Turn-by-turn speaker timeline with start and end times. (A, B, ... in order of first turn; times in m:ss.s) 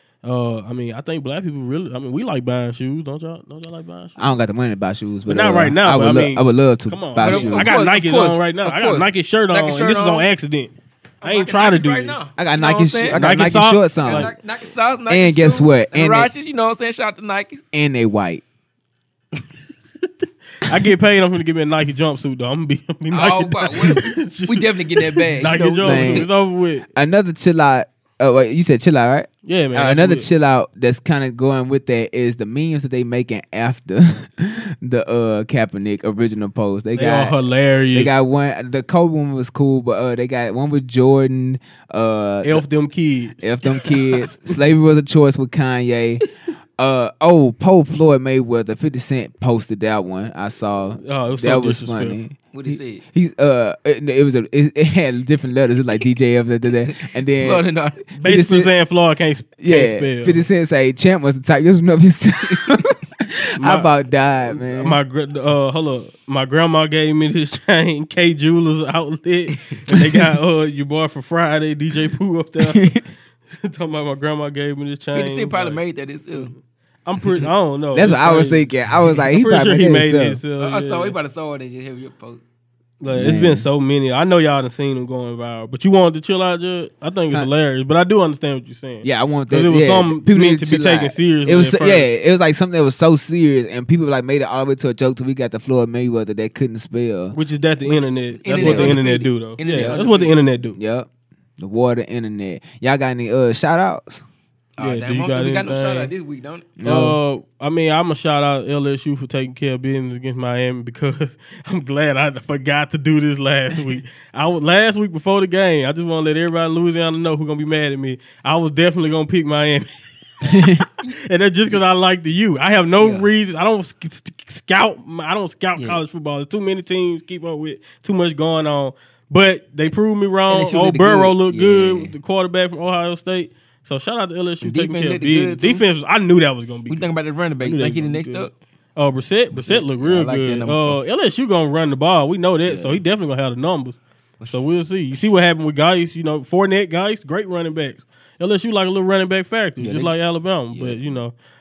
0:00.2-0:04.2 A
0:04.2-0:07.9 B
0:05.3-0:12.2 A
0:07.2-0:10.3 C
0:11.2-0:13.3 C
0:12.4-0:14.3 B
0:13.1-0:14.3 A
0:14.0-0:17.6 C
0:15.1-0:16.3 B
0:17.7-0:18.4 B
0:20.6-0:26.9 A
0:23.1-0:26.3 C
0:25.8-0:26.3 B
0:26.9-0:37.4 B
0:29.4-0:30.3 A
0:37.0-0:38.1 A
0:37.9-0:42.6 B
0:42.4-0:43.5 A
0:43.4-0:46.2 B
0:46.8-0:57.6 B
0:51.0-0:52.2 A
0:52.5-0:53.0 C
0:56.9-0:58.0 C
0:58.2-1:00.4 A
0:58.2-0:58.7 B
0:59.6-1:05.0 B
1:03.6-1:03.9 A
1:04.6-1:13.0 A
1:09.9-1:10.4 B
1:12.6-1:13.0 B
1:13.5-1:15.8 A
1:15.1-1:16.5 C
1:16.3-1:21.2 A
1:17.9-1:20.4 B
1:20.6-1:22.4 C
1:23.0-1:32.1 A
1:23.1-1:23.7 B
1:29.0-1:37.4 B
1:37.3-1:40.8 A
1:37.8-1:40.4 C
1:38.6-1:39.0 B
1:40.8-1:44.2 B
1:44.8-1:46.8 C
1:44.8-1:46.1 A
1:46.8-1:47.2 B
1:46.8-2:17.1 A
2:00.5-2:00.8 B
2:03.0-2:03.3 C
2:05.8-2:06.0 C
2:10.5-2:12.1 C
2:14.6-2:15.8 C
2:16.9-2:18.5 C
2:17.6-2:24.0 A
2:19.6-2:21.0 C
2:22.7-2:23.0 B
2:24.5-2:31.4 A
2:29.8-2:30.1 C
2:30.7-2:31.2 C